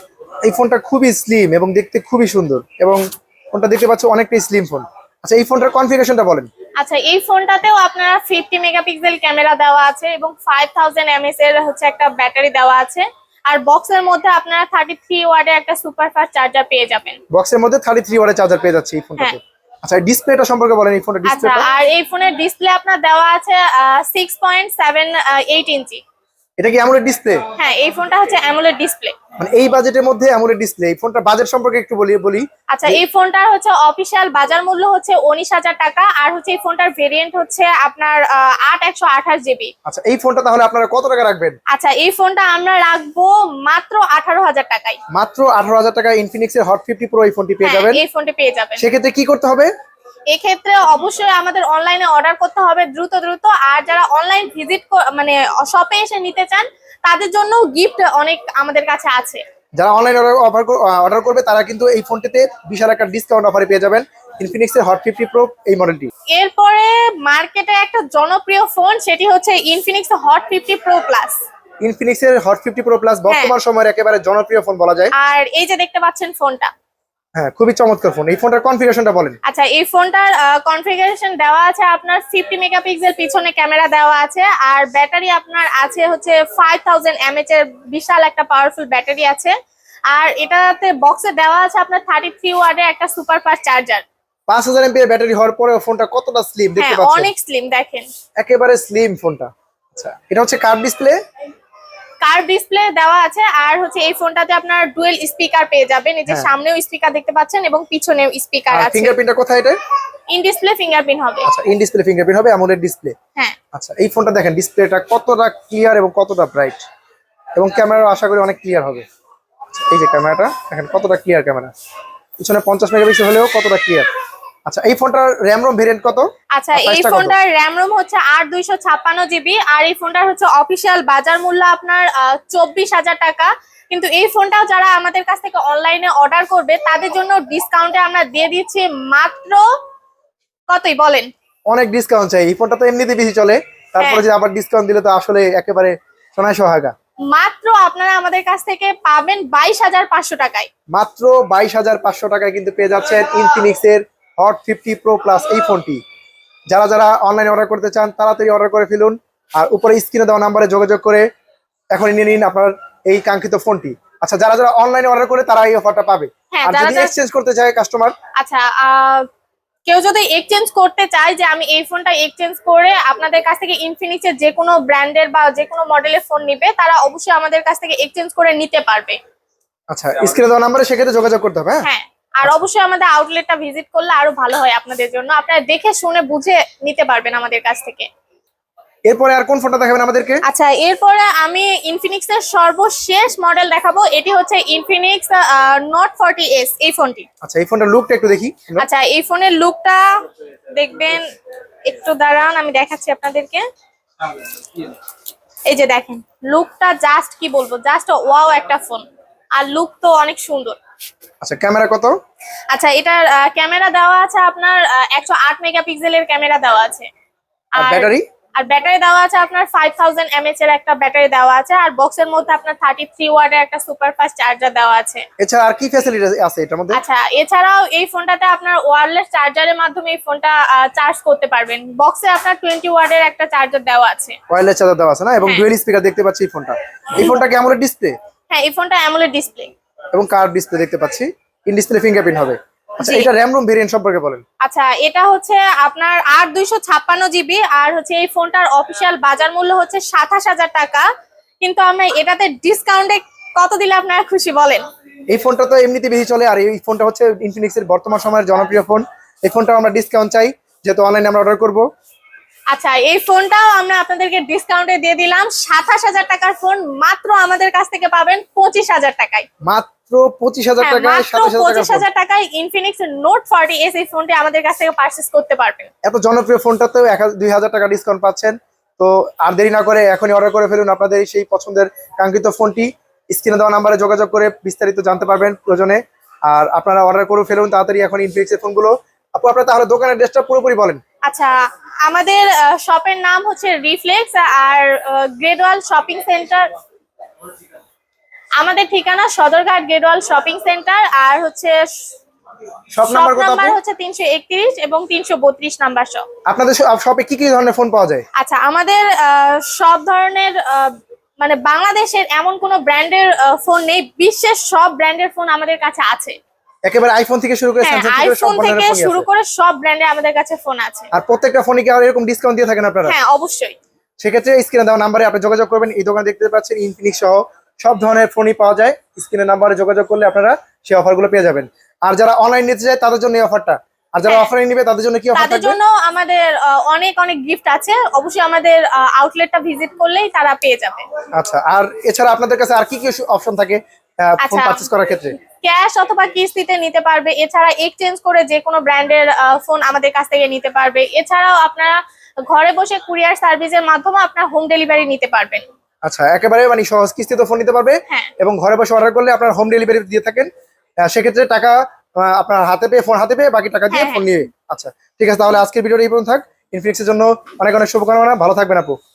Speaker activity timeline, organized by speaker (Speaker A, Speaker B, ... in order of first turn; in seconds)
Speaker A: 0.5-3.0, 3.5-6.5, 17.3-21.7, 26.6-27.4, 29.4-33.0, 39.9-41.6, 45.1-48.0, 48.8-49.7, 59.8-66.1, 71.8-75.1, 77.4-79.4, 94.5-97.3, 98.4-101.2, 106.3-106.5, 108.7-109.8, 111.5-113.2, 113.7-116.8, 117.6-119.0, 119.7-121.7, 122.4-124.1, 124.7-127.4, 141.7-146.9, 150.9-156.0, 156.7-161.3, 161.9-168.2, 179.9-181.9, 189.1-190.4, 197.4-198.9, 211.4-212.1, 217.8-218.3, 225.4-227.0, 234.5-238.2, 240.1-244.4, 255.3-261.9, 269.6-272.1, 276.0-291.0, 303.0-303.8, 306.5-308.2, 316.9-319.3, 321.1-323.2, 324.2-335.8, 341.4-345.4, 356.1-360.5, 361.0-369.0
Speaker B: 6.8-17.2, 21.3-26.0, 27.6-29.2, 32.7-39.7, 41.7-45.0, 47.6-48.9, 50.3-59.4, 66.3-71.4, 75.2-76.7, 79.5-89.6, 90.1-94.0, 96.8-98.1, 102.2-109.2, 110.3-111.5, 126.6-139.7, 140.7-141.3, 147.3-150.7, 166.5-167.1, 168.4-169.3, 169.9-179.2, 181.8-188.1, 190.4-197.3, 198.8-200.1, 200.8-201.2, 201.9-203.7, 205.7-210.8, 212.7-217.1, 217.8-225.2, 226.9-234.4, 238.5-239.7, 243.0-243.3, 244.6-251.1, 251.6-254.8, 262.7-269.5, 270.8-275.9, 291.2-296.7, 298.6-301.8, 303.1-306.2, 308.4-316.4, 317.8-321.1, 323.1-323.8, 335.4-341.1, 344.4-344.9, 345.6-355.6, 363.9-364.4